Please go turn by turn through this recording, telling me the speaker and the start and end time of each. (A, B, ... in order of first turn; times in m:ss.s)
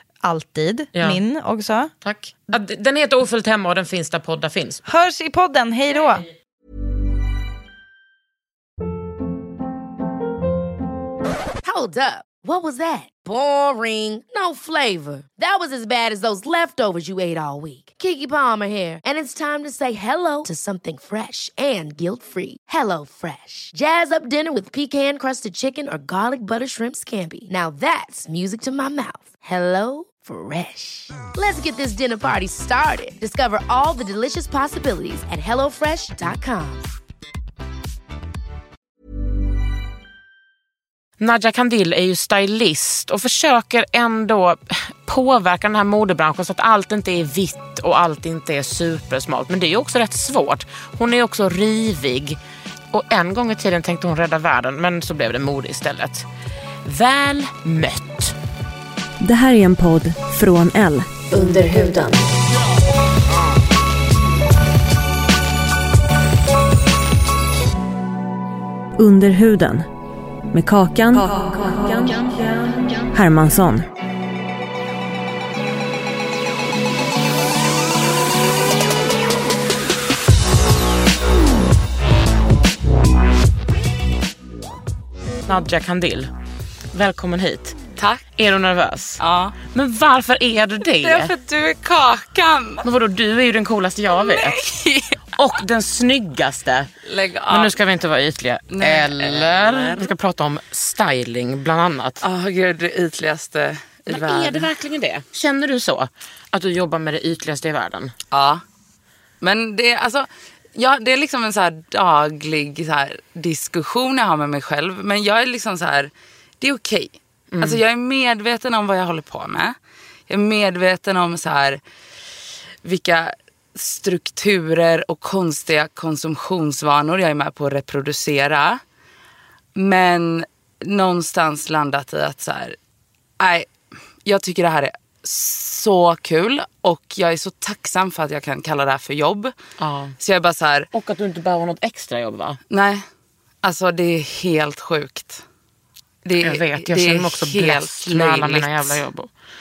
0:00.2-0:01.9 A
0:01.0-0:01.2 B
0:02.0-0:04.8 B
0:04.9-0:06.2 A
0:11.6-0:36.9 C
0:41.2-0:52.4 B
0:52.9-0:56.3 B
0:56.8-0:58.4 B
0:59.2-1:02.3 D
1:09.0-1:09.9 D
1:10.5-1:13.9 D
1:25.5-1:26.3 B
1:26.9-1:27.8 B
1:28.0-1:28.2 E
1:28.3-1:31.3 B
1:29.2-1:29.6 E
1:31.0-1:32.8 E
1:32.8-1:34.6 B
1:34.1-1:35.2 E
1:35.3-1:36.9 B
1:37.0-1:37.7 E
1:37.5-1:42.2 B
1:38.7-1:40.1 E
1:42.2-1:44.7 E
1:44.1-1:48.1 B
1:48.3-1:48.6 E
1:49.4-1:59.7 E
1:57.5-1:57.8 B
2:00.3-2:01.8 E
2:02.8-2:08.8 E
2:09.8-2:12.8 E
2:13.4-2:13.7 E
2:14.2-2:19.5 E
2:19.8-2:20.2 B
2:20.2-2:20.9 E
2:20.9-2:22.6 B
2:22.7-2:23.0 E
2:23.6-2:25.4 E
2:26.2-2:29.0 E
2:26.4-2:29.3 B